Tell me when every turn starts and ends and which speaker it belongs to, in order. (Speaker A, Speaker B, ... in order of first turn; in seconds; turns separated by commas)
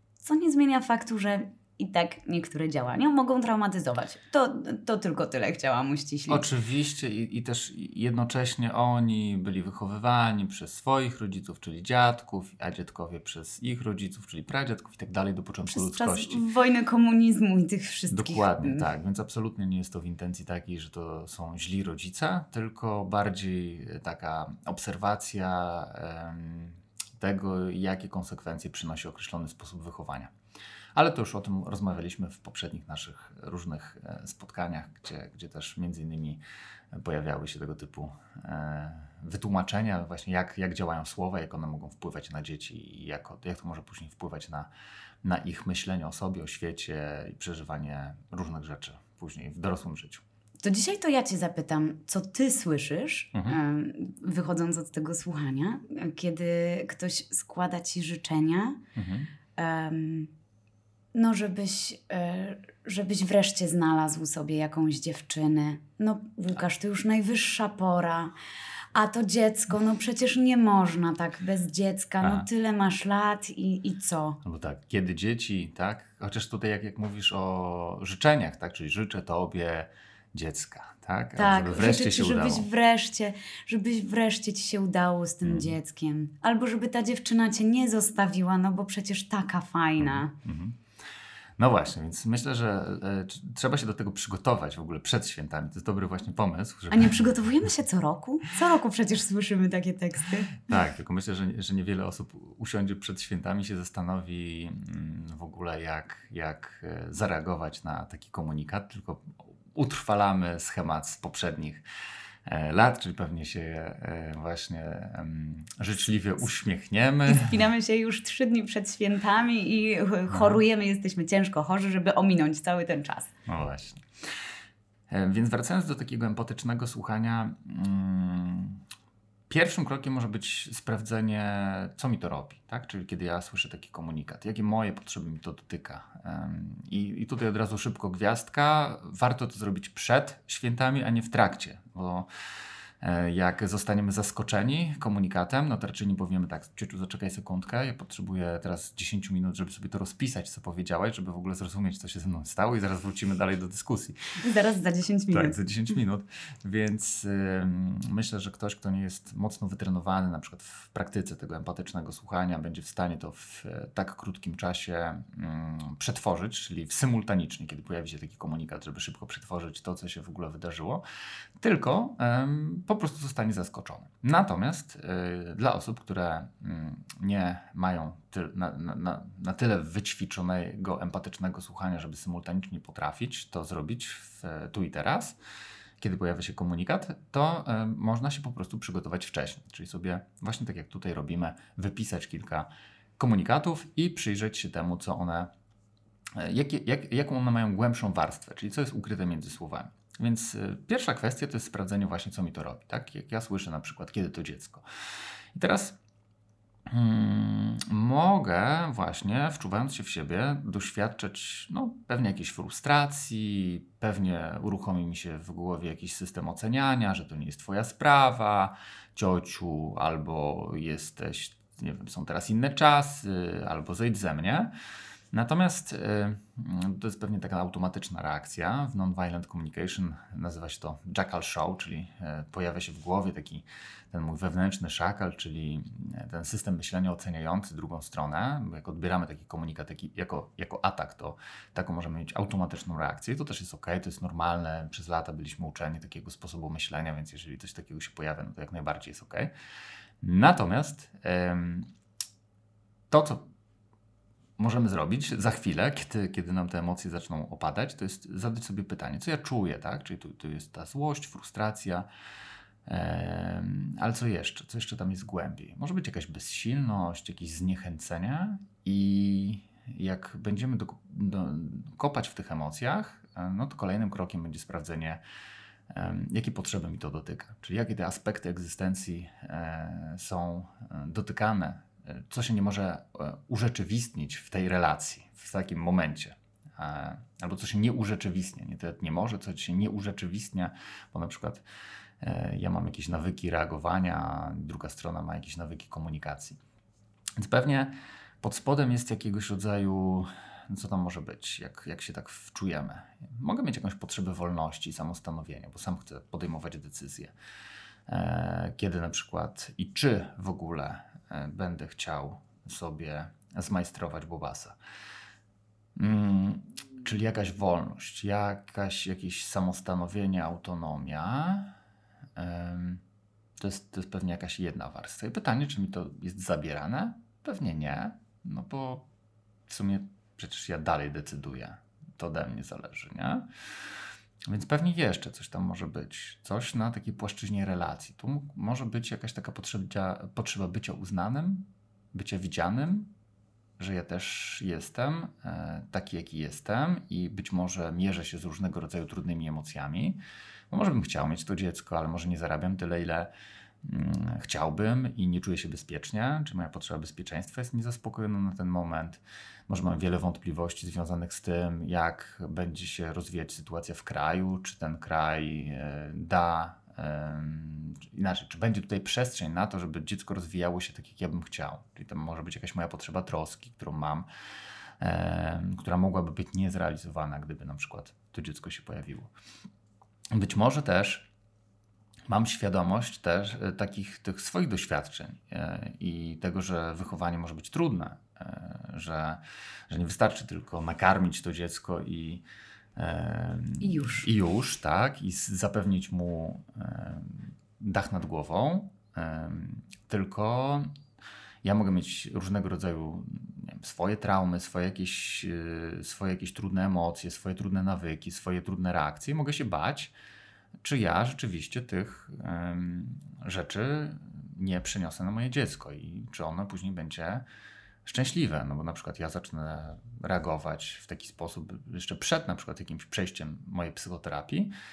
Speaker A: 0.2-6.5, Speaker B: 6.3-16.4, Speaker A: 15.7-18.9, Speaker B: 18.1-30.3, Speaker B: 30.9-36.4, Speaker B: 36.9-44.7, Speaker B: 45.2-50.2, Speaker A: 50.6-58.8, Speaker B: 53.3-53.6, Speaker B: 59.0-59.3, Speaker A: 59.6-60.3, Speaker A: 61.1-68.3, Speaker A: 68.9-74.4, Speaker B: 74.4-82.7, Speaker A: 81.4-90.3, Speaker B: 85.4-85.7, Speaker B: 90.0-90.8, Speaker B: 91.6-97.3, Speaker A: 96.9-100.6, Speaker B: 100.5-111.8, Speaker B: 112.5-117.7, Speaker A: 117.3-123.3, Speaker B: 120.3-120.6, Speaker B: 123.5-124.3, Speaker B: 125.1-128.8, Speaker B: 129.5-142.3, Speaker B: 143.0-154.2, Speaker A: 154.4-155.6, Speaker B: 155.3-171.0, Speaker B: 171.6-185.4, Speaker B: 186.0-195.5, Speaker B: 196.4-204.8, Speaker B: 205.6-206.0, Speaker B: 206.9-224.7, Speaker B: 225.3-249.5, Speaker B: 250.2-251.9, Speaker B: 253.1-253.5, Speaker B: 254.6-262.1, Speaker B: 262.9-275.2, Speaker B: 275.9-291.6, Speaker B: 292.2-296.6, Speaker B: 297.4-307.3, Speaker B: 308.1-314.8, Speaker B: 315.9-321.8, Speaker B: 322.4-323.0, Speaker B: 323.6-329.1, Speaker B: 329.7-333.9, Speaker B: 334.5-343.1, Speaker B: 343.8-350.2, Speaker B: 350.7-353.3, Speaker B: 353.8-374.3, Speaker B: 375.0-379.3, Speaker B: 380.3-381.3, Speaker B: 382.3-392.4, Speaker B: 393.0-400.9, Speaker A: 393.8-394.3, Speaker B: 401.6-410.1, Speaker B: 410.8-417.4, Speaker B: 418.1-424.7